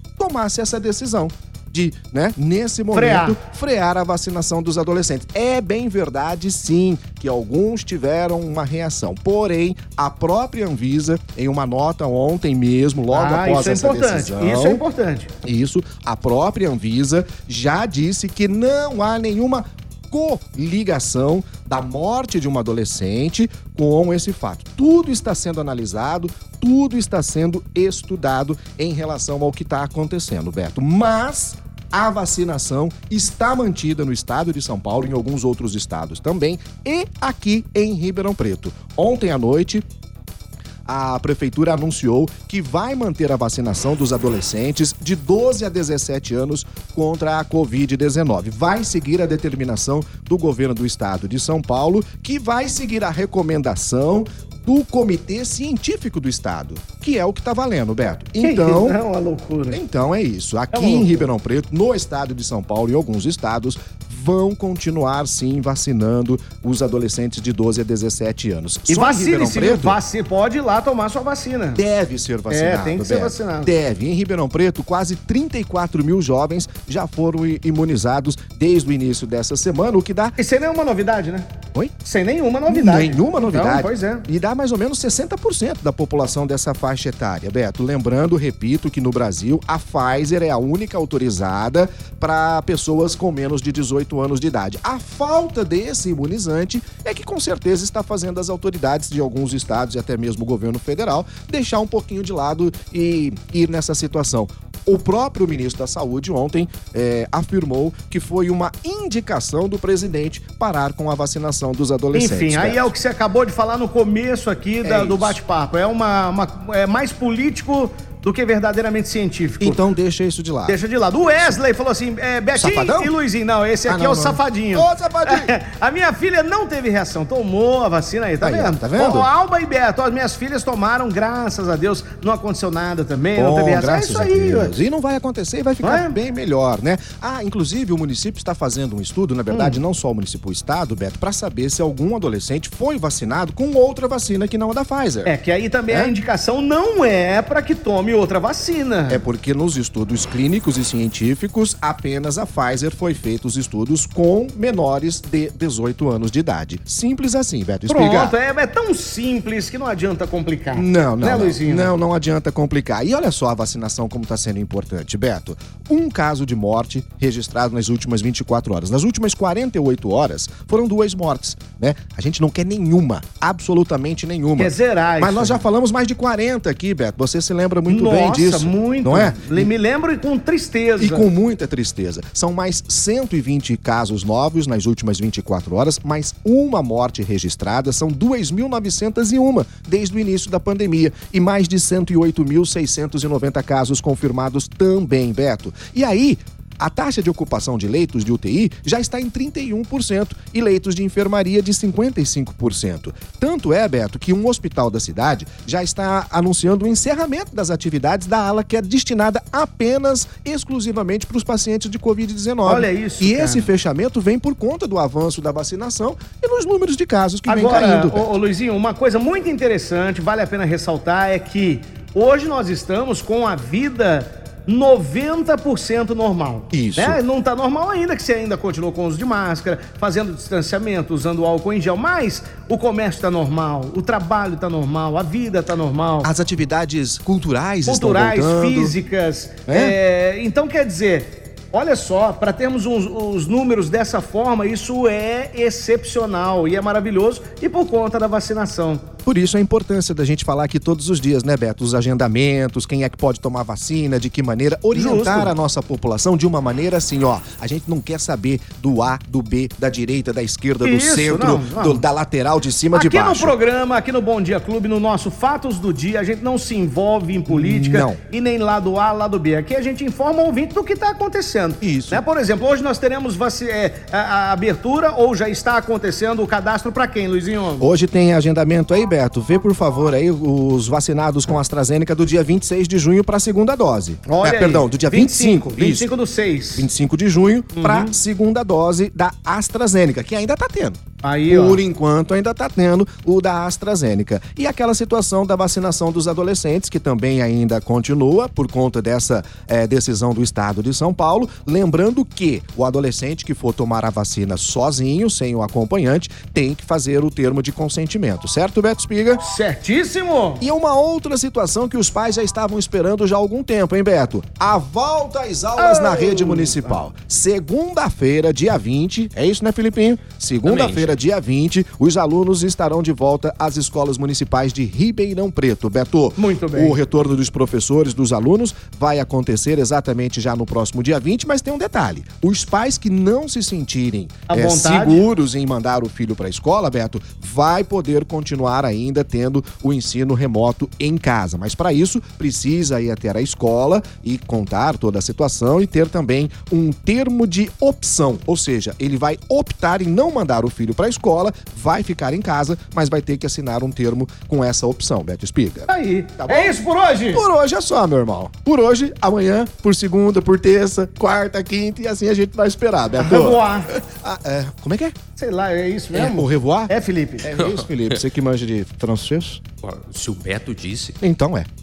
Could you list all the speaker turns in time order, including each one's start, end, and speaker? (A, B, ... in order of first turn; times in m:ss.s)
0:00.2-0:14.8 A
0:02.9-0:03.4 B
0:13.1-0:15.3 B
0:15.4-0:39.8 A
0:40.8-0:59.0 A
0:58.4-0:59.8 B
0:59.7-1:10.0 A
1:00.7-1:01.2 B
1:08.9-1:11.8 B
1:11.7-1:20.4 A
1:12.5-1:13.8 B
1:20.4-1:21.5 B
1:22.0-1:24.2 B
1:22.7-1:52.9 A
1:52.1-1:59.8 B
1:54.8-1:55.4 A
1:59.6-2:00.8 A
2:00.6-2:14.8 B
2:02.5-2:03.1 A
2:03.9-2:05.5 A
2:08.4-2:09.3 A
2:13.4-2:25.3 A
2:15.8-2:16.2 B
2:19.5-2:19.8 B
2:25.2-2:29.2 B
2:29.1-2:38.3 A
2:37.9-2:41.9 B
2:40.7-2:59.7 A
2:54.6-2:55.6 B
2:57.9-3:01.3 B
3:01.0-3:38.3 A
3:32.6-3:33.7 B
3:37.5-3:56.3 B
3:46.7-3:47.2 A
3:56.2-3:58.9 A
3:57.8-4:09.0 B
3:59.7-4:00.0 A
4:09.2-4:23.5 A
4:14.9-4:15.5 B
4:20.8-4:22.0 B
4:22.9-4:37.9 B
4:27.5-4:28.2 A
4:31.8-4:32.2 A
4:37.8-4:46.1 A
4:44.2-4:46.9 B
4:46.8-5:09.4 A
4:47.7-4:48.1 B
4:51.2-4:51.8 B
5:09.4-5:10.6 B
5:10.6-5:56.8 A
5:15.8-5:17.0 B
5:20.6-5:21.2 C
5:26.4-5:27.0 B
5:34.5-5:35.2 B
5:55.9-5:57.4 B
5:57.3-6:05.1 A
6:03.2-6:03.9 B
6:05.4-6:07.5 B
6:06.1-6:09.6 A
6:07.6-6:07.8 C
6:09.8-6:11.1 C
6:11.2-6:11.7 A